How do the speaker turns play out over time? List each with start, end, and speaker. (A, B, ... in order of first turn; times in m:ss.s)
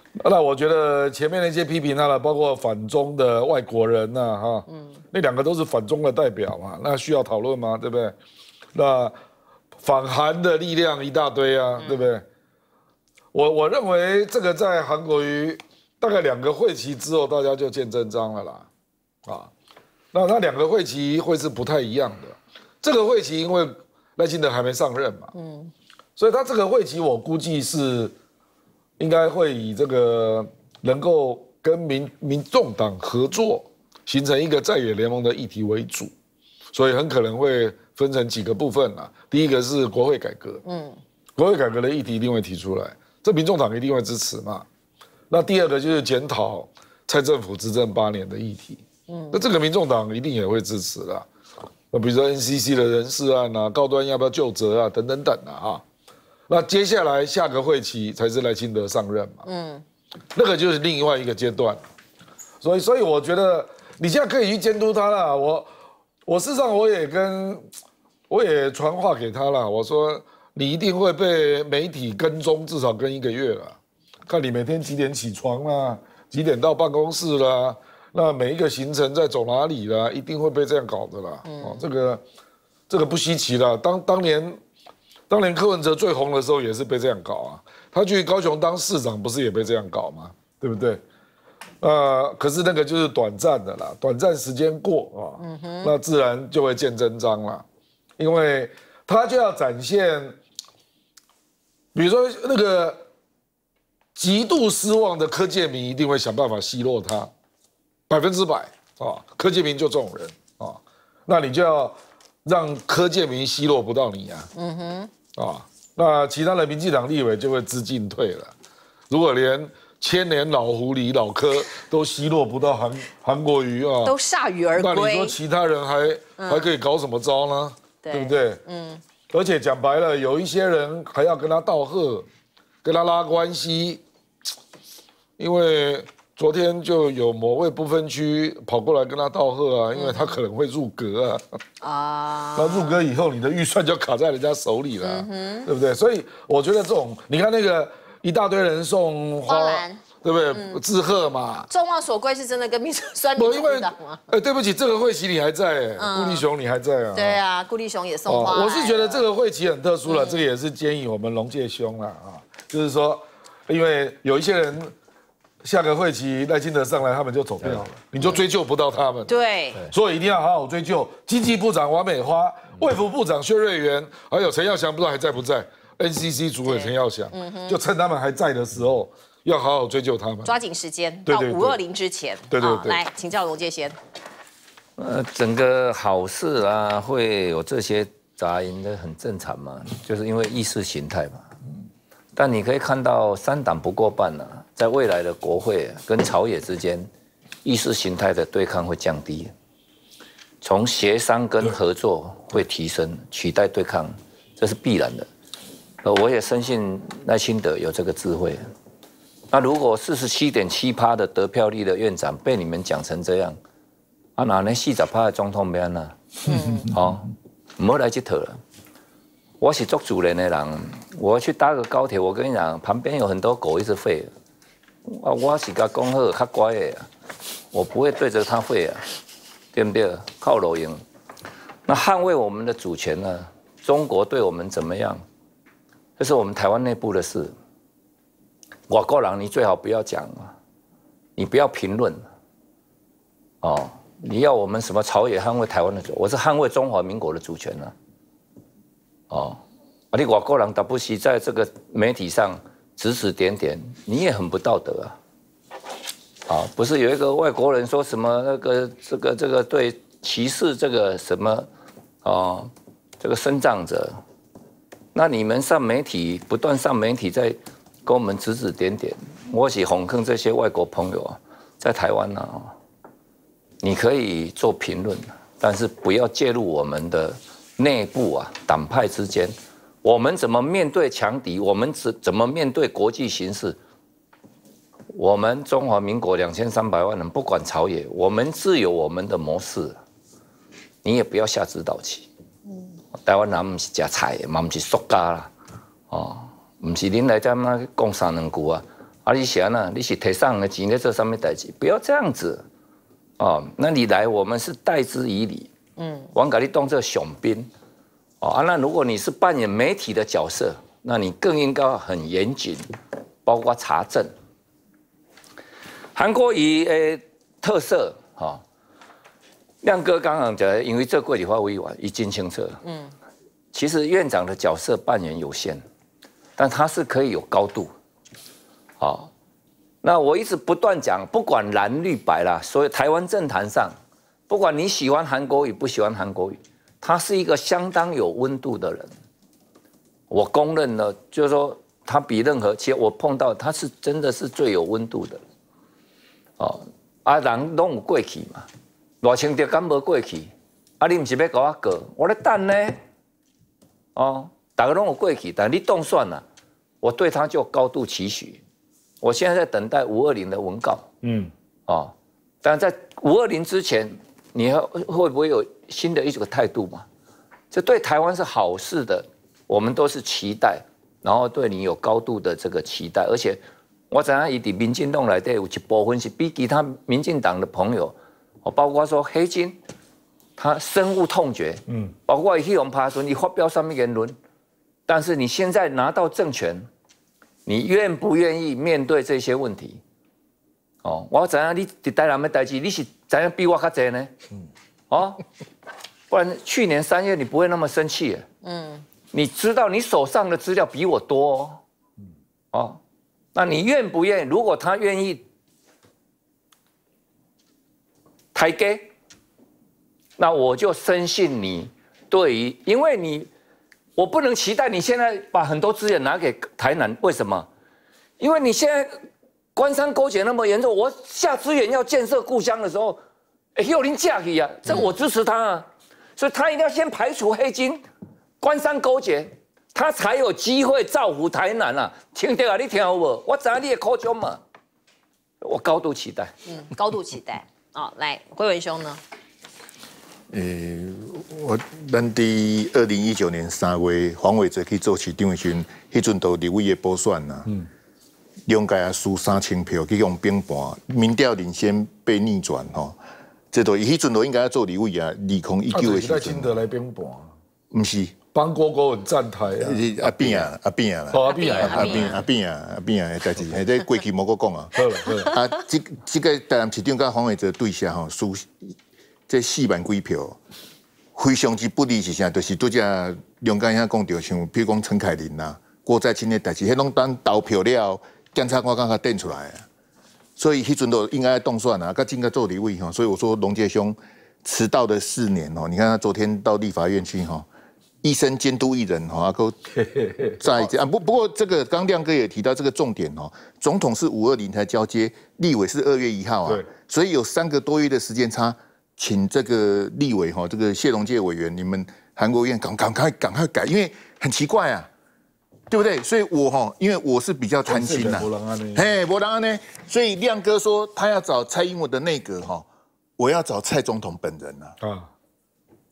0:00.2-0:08.2 A
0:08.7-0:09.2 A
0:09.8-0:12.2 A
0:11.8-0:12.1 B
0:13.3-0:18.7 A
0:19.2-0:19.5 A
0:20.1-0:25.3 A
0:25.3-0:25.7 B
0:26.2-0:28.1 A
0:29.0-0:36.1 A
0:36.7-0:40.6 A
0:40.6-0:41.0 B
0:41.4-0:44.6 A
0:45.3-0:51.3 A
0:49.1-0:49.4 B
0:51.9-0:55.8 A
0:56.5-0:59.4 A
0:59.4-0:59.8 B
1:00.3-1:01.8 A
1:02.6-1:05.7 A
1:06.2-1:07.6 A
1:08.3-1:22.2 A
1:21.4-1:21.8 B
1:22.9-1:24.6 A
1:25.3-1:31.0 A
1:31.8-1:37.6 A
1:35.4-1:35.9 B
1:38.2-1:40.4 A
1:41.9-1:43.0 A
1:44.1-1:47.3 A
1:48.1-1:54.5 A
1:54.5-1:55.1 B
1:55.4-1:58.5 A
1:59.1-2:04.1 A
2:04.0-2:05.4 B
2:04.8-2:08.6 A
2:06.4-2:06.7 B
2:08.0-2:09.0 B
2:09.3-2:12.3 A
2:12.8-2:14.0 A
2:15.4-2:21.4 A
2:19.9-2:20.4 B
2:21.8-2:23.0 B
2:22.6-2:31.7 A
2:25.0-2:25.7 B
2:29.4-2:30.8 B
2:31.7-2:34.3 B
2:33.4-2:37.4 A
2:36.0-2:36.4 B
2:37.1-2:39.2 B
2:38.3-2:44.9 A
2:40.0-2:40.4 B
2:45.6-2:49.3 A
2:49.3-2:49.8 B
2:49.9-3:00.5 A
2:56.6-2:57.8 B
3:00.4-3:03.9 B
3:01.3-3:01.8 A
3:02.5-3:03.0 A
3:05.0-3:11.4 C
3:12.3-3:17.1 C
3:17.6-3:19.5 C
3:20.6-3:25.3 C
3:26.0-3:28.6 C
3:29.5-3:33.6 C
3:34.4-3:38.6 C
3:36.4-3:36.9 B
3:39.6-3:44.3 C
3:45.0-3:47.1 C
3:47.7-3:49.0 C
3:49.7-3:51.0 C
3:51.9-3:55.2 C
3:56.2-3:57.5 C
3:58.9-4:00.5 C
4:01.4-4:02.2 C
4:03.6-4:07.9 C
4:09.3-4:09.6 C
4:10.1-4:15.2 C
4:16.5-4:21.7 C
4:22.2-4:24.2 C
4:25.1-4:32.7 C
4:33.8-4:43.8 C
4:45.1-4:50.0 C
4:51.0-4:52.3 C
4:53.2-4:55.5 C
4:56.1-5:02.6 C
5:03.4-5:05.7 C
5:06.0-5:06.3 B
5:06.3-5:07.7 C
5:08.4-5:12.9 C
5:13.4-5:14.3 C
5:16.1-5:18.6 C
5:19.8-5:22.8 C
5:22.8-5:23.1 B
5:23.7-5:25.8 C
5:26.6-5:27.9 C
5:29.0-5:29.3 C
5:30.0-5:34.0 C
5:34.5-5:39.1 C
5:40.3-5:45.4 C
5:46.6-5:48.7 C
5:49.2-5:53.0 C
5:54.2-5:56.4 C
5:57.0-5:58.6 C
5:59.2-6:01.1 C
6:01.2-6:01.5 A
6:01.9-6:07.0 C
6:07.7-6:19.8 C
6:20.6-6:24.4 C
6:25.1-6:26.8 C
6:27.6-6:30.0 C
6:31.0-6:34.3 C
6:35.1-6:35.4 C
6:36.3-6:38.4 C
6:38.6-6:39.0 B
6:39.3-6:41.8 C
6:42.7-6:43.0 C
6:43.5-6:45.4 C
6:48.5-6:49.1 C
6:50.4-6:53.5 C
6:54.2-6:57.7 C
6:58.4-6:59.1 C
6:59.8-7:03.2 C
7:03.8-7:08.0 C
7:08.6-7:14.6 C
7:15.6-7:16.5 C
7:16.7-7:19.2 B
7:20.5-7:27.7 D
7:28.7-7:33.2 D
7:33.7-7:36.7 D
7:35.9-7:37.5 A
7:37.9-7:38.4 D
7:38.5-7:40.7 A
7:39.8-7:44.9 D
7:41.3-7:42.1 A
7:41.4-7:42.4 B
7:44.9-7:45.5 A
7:45.5-7:48.9 D
7:49.5-7:50.6 D
7:51.3-7:59.8 D
8:00.6-8:07.6 D
8:08.2-8:09.7 D
8:10.0-8:10.6 A
8:10.6-8:25.1 D
8:25.9-8:32.8 D
8:27.9-8:29.1 A
8:33.4-8:35.0 D
8:35.0-8:35.3 A